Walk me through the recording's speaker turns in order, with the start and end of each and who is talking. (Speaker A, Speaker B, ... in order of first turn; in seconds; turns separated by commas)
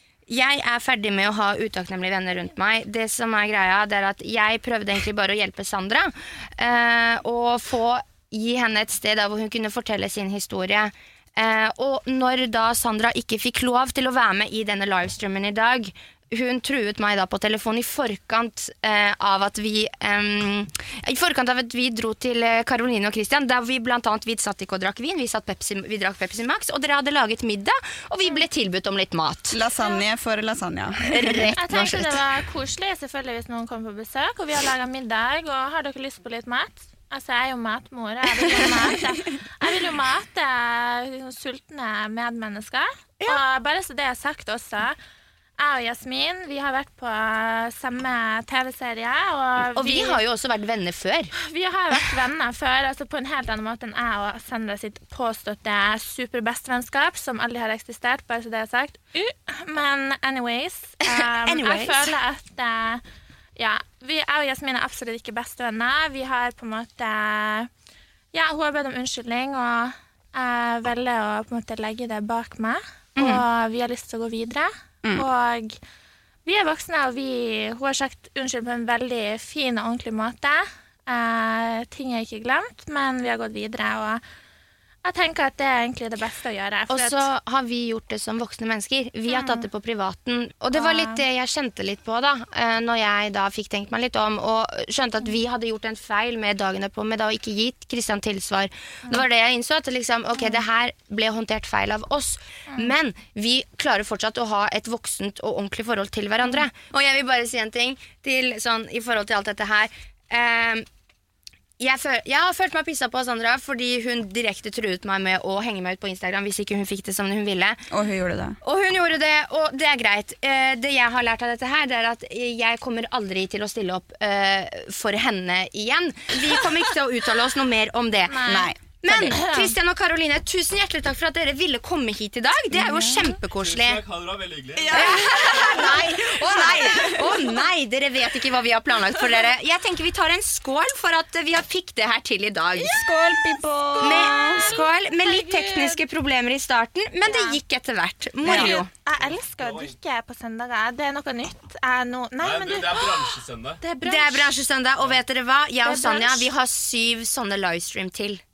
Speaker A: 0.3-29.6, Speaker B: 29.5-31.5, Speaker A: 31.0-32.2, Speaker C: 31.6-45.0, Speaker C: 45.6-50.2, Speaker A: 49.7-51.3, Speaker C: 51.4-63.0, Speaker A: 61.0-62.1, Speaker C: 63.6-67.7, Speaker C: 68.3-75.8, Speaker A: 73.2-73.4, Speaker C: 76.4-84.2, Speaker C: 85.0-87.3, Speaker A: 86.9-110.8, Speaker C: 89.3-89.7, Speaker C: 90.7-91.2, Speaker A: 111.8-117.8, Speaker B: 117.9-118.6, Speaker A: 118.6-128.5, Speaker C: 128.3-129.7, Speaker B: 128.4-129.3, Speaker A: 129.0-134.0, Speaker C: 132.7-133.3, Speaker D: 133.5-135.3, Speaker B: 134.8-137.7, Speaker A: 134.9-142.9, Speaker B: 142.7-144.7, Speaker C: 144.0-146.0, Speaker A: 144.0-148.9, Speaker C: 147.2-147.6, Speaker B: 148.4-148.8, Speaker C: 148.4-154.5, Speaker D: 149.2-149.9, Speaker D: 152.4-153.8, Speaker A: 154.0-158.4, Speaker C: 155.8-156.4